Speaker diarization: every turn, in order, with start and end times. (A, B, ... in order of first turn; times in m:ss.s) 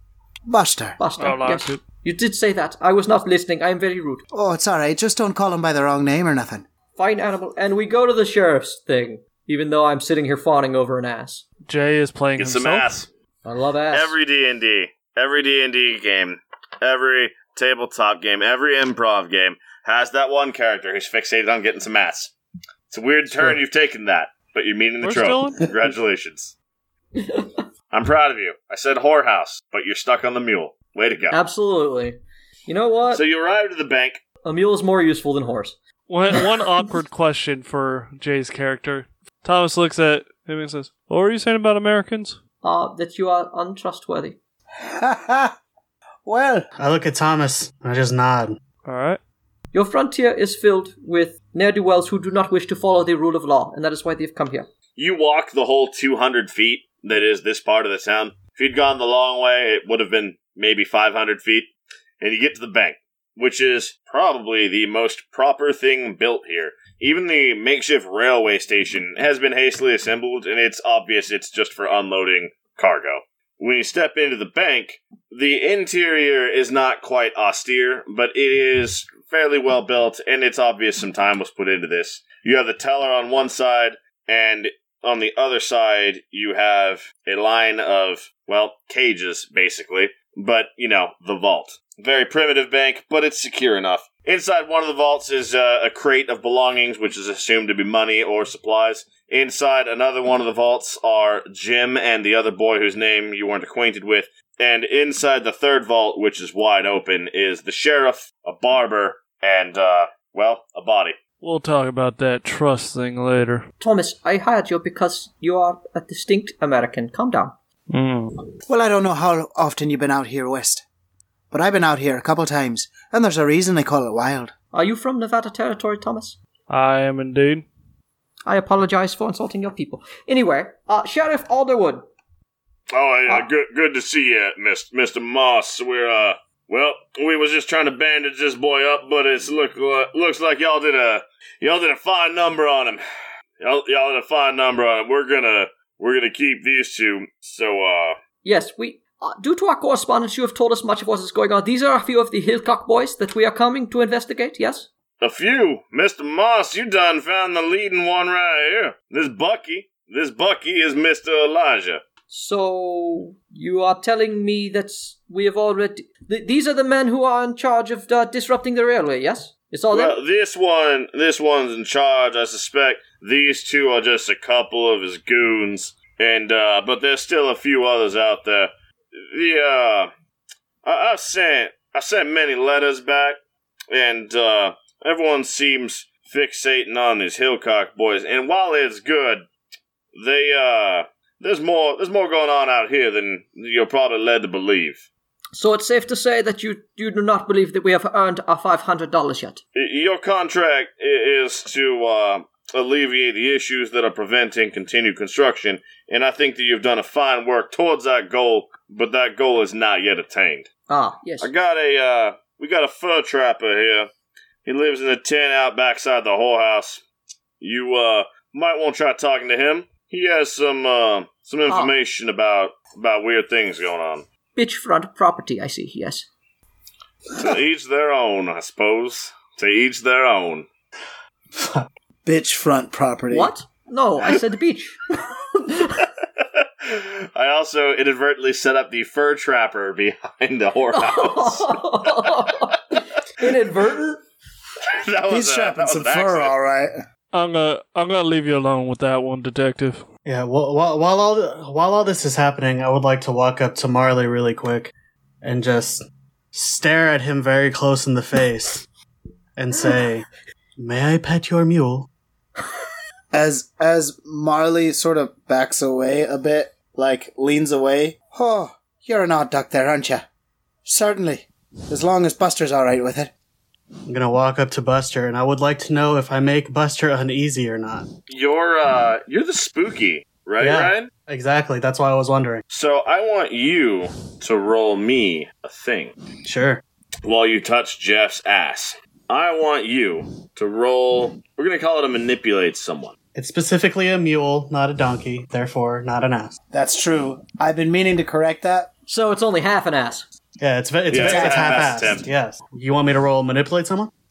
0:00.5-0:01.0 A
0:01.0-0:04.2 B
0:01.2-0:01.8 C
0:04.3-0:06.7 A
0:07.0-0:11.4 B
0:11.7-0:13.0 C
0:12.4-0:13.1 D
0:13.4-0:14.2 B
0:13.9-0:22.3 D
0:22.9-0:26.5 D
0:25.0-0:25.7 C
0:27.2-0:27.6 B
0:27.9-0:31.4 D
0:31.3-0:33.2 B
0:33.1-0:34.2 D
0:34.4-0:35.8 B
0:36.1-0:42.4 C
0:42.6-0:44.4 B
0:44.9-0:45.5 A
0:46.2-0:46.7 A
0:46.8-0:48.6 E
0:48.8-0:49.2 C
0:49.7-0:54.7 B
0:55.0-1:51.2 D
1:51.4-1:53.7 C
1:53.8-1:57.5 B
1:57.9-1:58.4 C
1:58.7-2:00.8 A
2:01.5-2:04.5 A
2:04.7-2:06.4 B
2:06.7-2:07.7 C
2:08.5-2:12.0 B
2:12.9-2:23.0 D
2:23.6-2:28.2 D
2:28.4-2:34.9 B
2:35.2-2:42.0 D
2:42.3-2:50.2 B
2:49.9-3:00.1 D
3:00.8-3:03.4 D
3:03.9-3:09.5 D
3:10.2-3:15.1 D
3:15.5-3:19.6 B
3:19.8-3:30.7 D
3:30.9-3:31.5 B
3:31.4-3:34.1 D
3:34.7-3:37.0 D
3:37.6-3:44.3 D
3:41.7-3:42.0 B
3:44.6-3:46.3 B
3:47.4-3:50.7 D
3:51.6-3:51.9 E
3:52.2-3:53.5 A
3:53.3-3:56.0 B
3:56.8-4:01.8 D
4:00.9-4:04.2 B
4:04.9-4:06.5 D
4:05.3-4:06.9 A
4:07.3-4:10.0 C
4:10.3-4:14.9 E
4:15.4-4:16.0 E
4:16.5-4:18.9 E
4:19.6-4:20.3 E
4:20.8-4:22.1 E
4:23.3-4:30.3 A
4:30.8-4:33.3 A
4:34.1-4:38.1 E
4:38.3-4:41.1 D
4:40.6-4:42.6 E
4:42.7-4:46.2 D
4:46.4-4:46.8 E
4:47.2-4:53.2 D
4:53.4-4:56.6 E
4:56.7-4:58.9 A
4:59.1-5:00.3 B
5:00.6-5:04.1 E
5:01.1-5:02.3 D
5:01.3-5:01.9 A